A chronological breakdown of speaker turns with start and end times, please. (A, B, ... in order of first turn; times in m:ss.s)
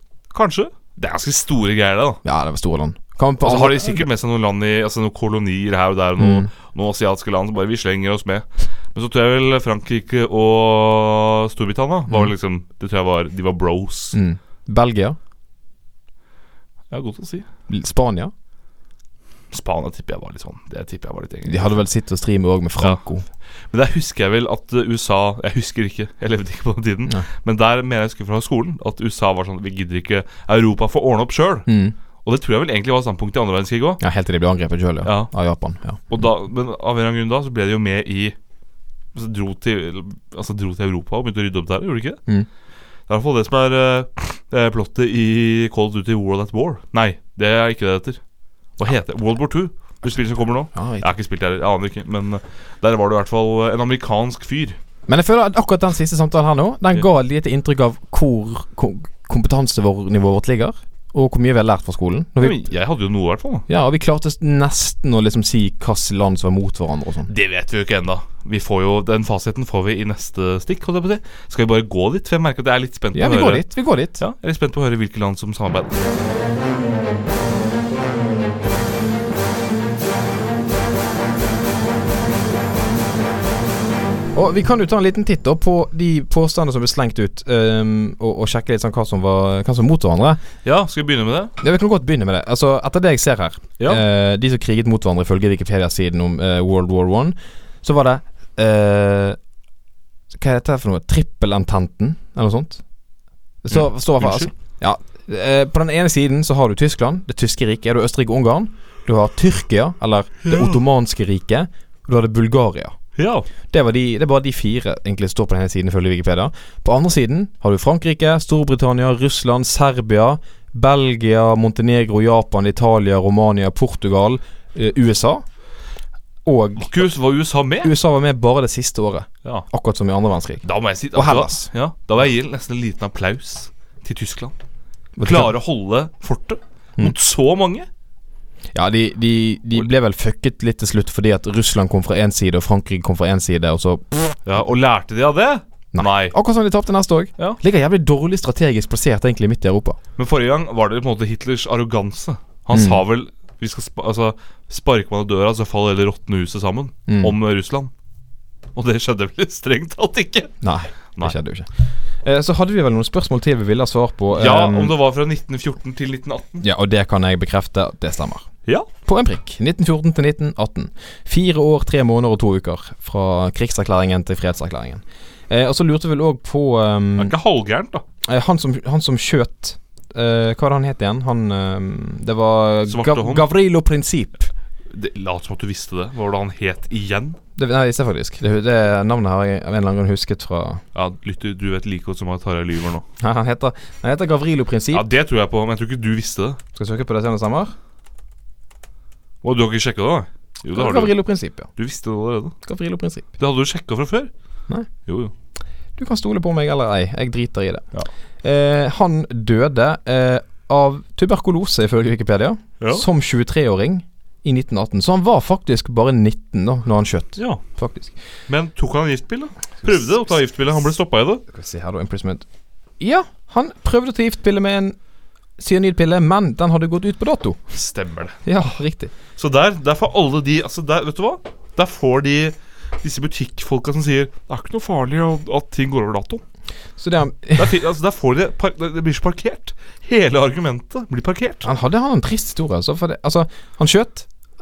0:00.3-0:02.2 A
0:02.2-0:04.1 B
0:03.4-0:14.2 A
0:06.2-0:06.5 B
0:14.1-0:15.2 B
0:16.9-0:17.4 A
0:17.7-0:18.3 B
0:19.5-0:21.7 A
0:21.4-0:23.2 B
0:23.7-0:31.7 A
0:31.7-0:31.9 B
0:32.2-0:34.0 A
0:34.0-0:36.0 B
0:35.0-0:35.3 A
0:36.1-0:38.4 A
0:39.1-0:42.2 A
0:43.1-0:48.2 A
0:48.8-0:54.8 A
0:50.7-0:51.1 B
0:55.1-1:02.6 B
1:02.4-1:03.6 A
1:03.7-1:07.3 B
1:07.3-1:16.0 A
1:13.1-1:14.2 B
1:24.3-1:30.4 B
1:30.6-1:31.5 A
1:31.6-1:39.4 B
1:40.3-1:42.8 B
1:43.6-1:52.9 B
1:43.7-1:44.5 A
1:50.4-1:50.8 A
1:53.2-1:53.5 A
1:53.7-2:05.4 B
2:06.4-2:07.0 B
2:06.8-2:07.9 A
2:07.8-2:11.7 B
2:10.6-2:14.5 A
2:15.2-2:15.5 B
2:15.2-2:17.9 A
2:18.7-2:24.4 B
2:24.4-2:26.4 A
2:25.9-2:30.0 B
2:30.2-2:37.9 A
2:32.7-2:33.0 B
2:37.1-2:37.4 B
2:38.7-2:40.6 A
2:40.6-2:44.9 B
2:44.3-2:46.6 A
2:46.6-2:48.4 B
2:49.0-2:57.3 B
2:57.2-2:58.0 A
2:58.2-3:04.5 B
3:02.9-3:03.5 A
3:04.9-3:07.4 A
3:07.6-3:10.8 B
3:10.9-3:13.0 A
3:13.2-3:15.0 B
3:14.9-3:16.6 A
3:16.7-3:17.7 B
3:19.4-3:21.2 A
3:20.7-3:21.7 B
3:21.8-3:22.6 A
3:22.6-3:23.3 B
3:23.4-3:24.3 A
3:25.1-3:25.3 A
3:26.0-3:27.9 B
3:28.4-3:38.1 B
3:38.5-3:41.4 A
3:39.8-3:40.2 B
3:41.5-3:42.4 B
3:43.0-3:45.0 B
3:45.6-3:47.6 B
3:47.7-3:48.4 A
3:48.4-3:49.1 B
3:49.4-3:56.4 A
3:57.0-3:57.8 B
3:57.6-4:01.7 A
4:01.6-4:04.3 B